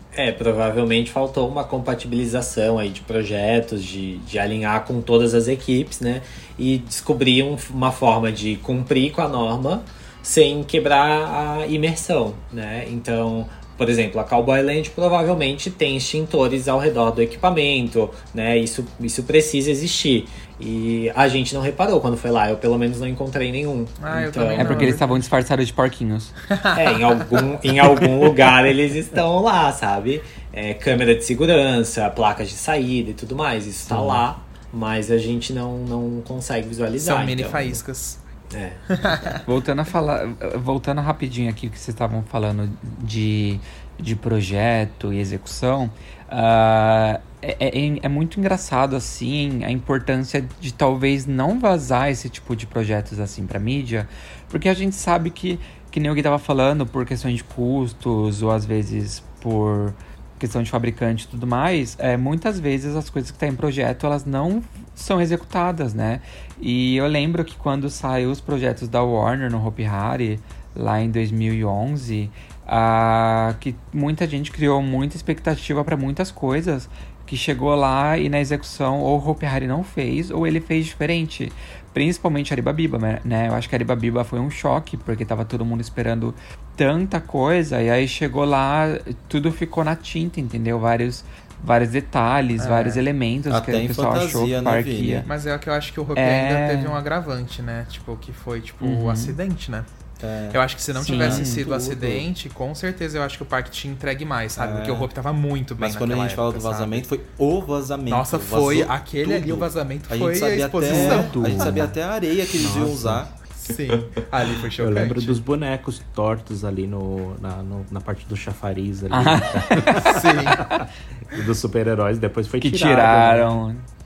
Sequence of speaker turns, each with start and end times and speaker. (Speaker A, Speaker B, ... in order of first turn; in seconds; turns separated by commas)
Speaker A: 0.1-25.0, Speaker B: 24.0-25.3, Speaker C: 24.6-26.3, Speaker B: 26.5-27.5, Speaker A: 26.7-37.8, Speaker C: 33.9-34.2, Speaker B: 37.0-38.2, Speaker A: 38.5-38.8, Speaker B: 38.9-39.4, Speaker C: 39.5-95.3, Speaker B: 92.6-93.0, Speaker D: 93.5-95.3, Speaker B: 95.3-99.9, Speaker C: 96.2-97.0, Speaker C: 98.8-99.4, Speaker D: 100.2-102.2, Speaker B: 100.5-107.0, Speaker C: 101.0-101.6, Speaker D: 104.6-105.1, Speaker D: 105.8-113.3, Speaker B: 108.1-111.9, Speaker C: 110.9-111.9, Speaker E: 112.6-113.3, Speaker B: 113.6-115.4, Speaker E: 114.8-123.7, Speaker C: 119.1-120.2, Speaker B: 120.1-120.6, Speaker C: 122.6-123.9